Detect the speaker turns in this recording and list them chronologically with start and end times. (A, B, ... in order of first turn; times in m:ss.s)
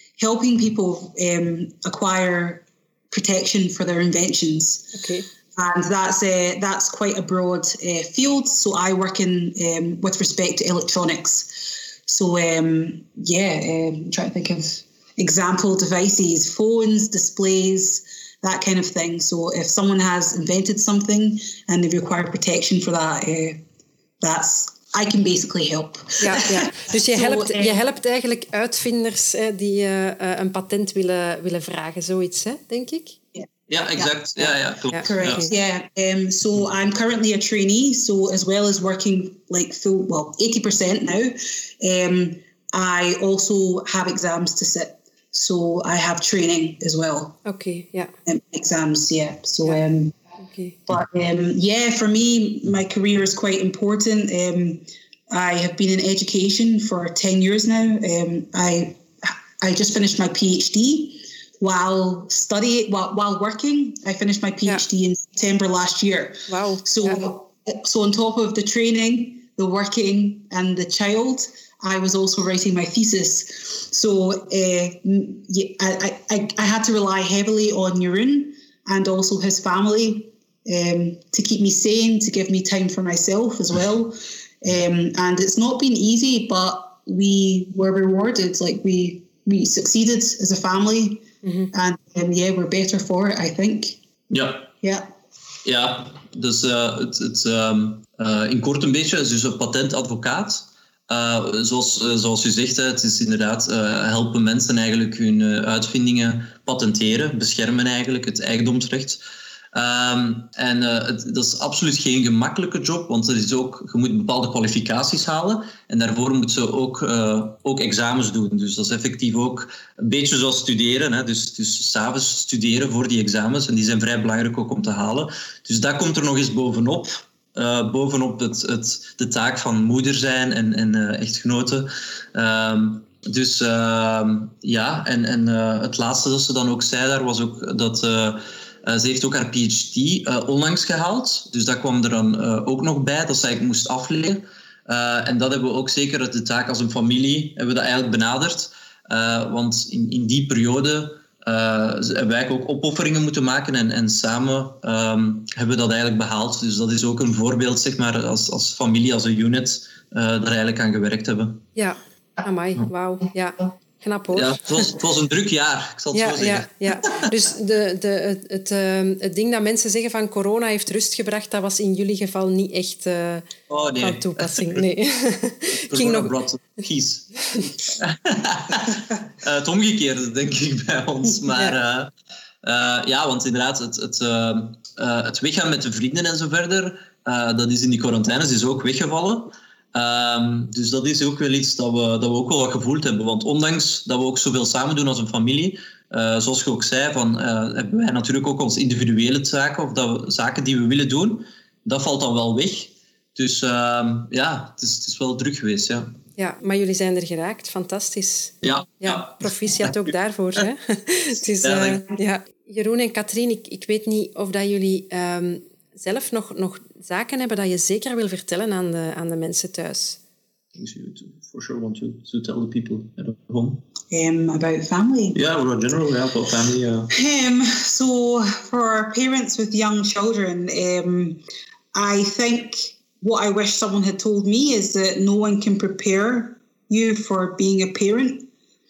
0:00.2-0:04.9 A
0:04.9-0:05.3 B
0:05.6-0:23.6 A
0:24.2-0:27.8 A
0:26.2-0:33.2 B
0:33.7-0:35.5 C
0:34.9-0:35.5 B
0:35.0-0:47.4 A
0:47.4-0:48.1 B
0:48.3-0:50.2 A
0:50.4-0:50.8 B
0:50.9-1:34.0 A
1:06.5-1:07.3 B
1:31.4-1:31.7 B
1:34.3-1:34.7 C
1:35.6-1:49.2 C
1:49.7-2:41.7 C
2:41.8-2:44.9 B
2:44.3-2:47.3 C
2:46.1-2:56.3 B
2:53.7-2:54.8 C
2:55.9-3:02.1 C
3:02.6-3:26.1 C
3:26.4-3:40.2 B
3:28.6-3:29.9 C
3:31.6-3:32.1 C
3:40.8-3:43.8 C
3:44.1-3:45.4 A
3:45.3-3:47.1 C
3:47.1-3:51.4 A
3:51.9-3:58.5 A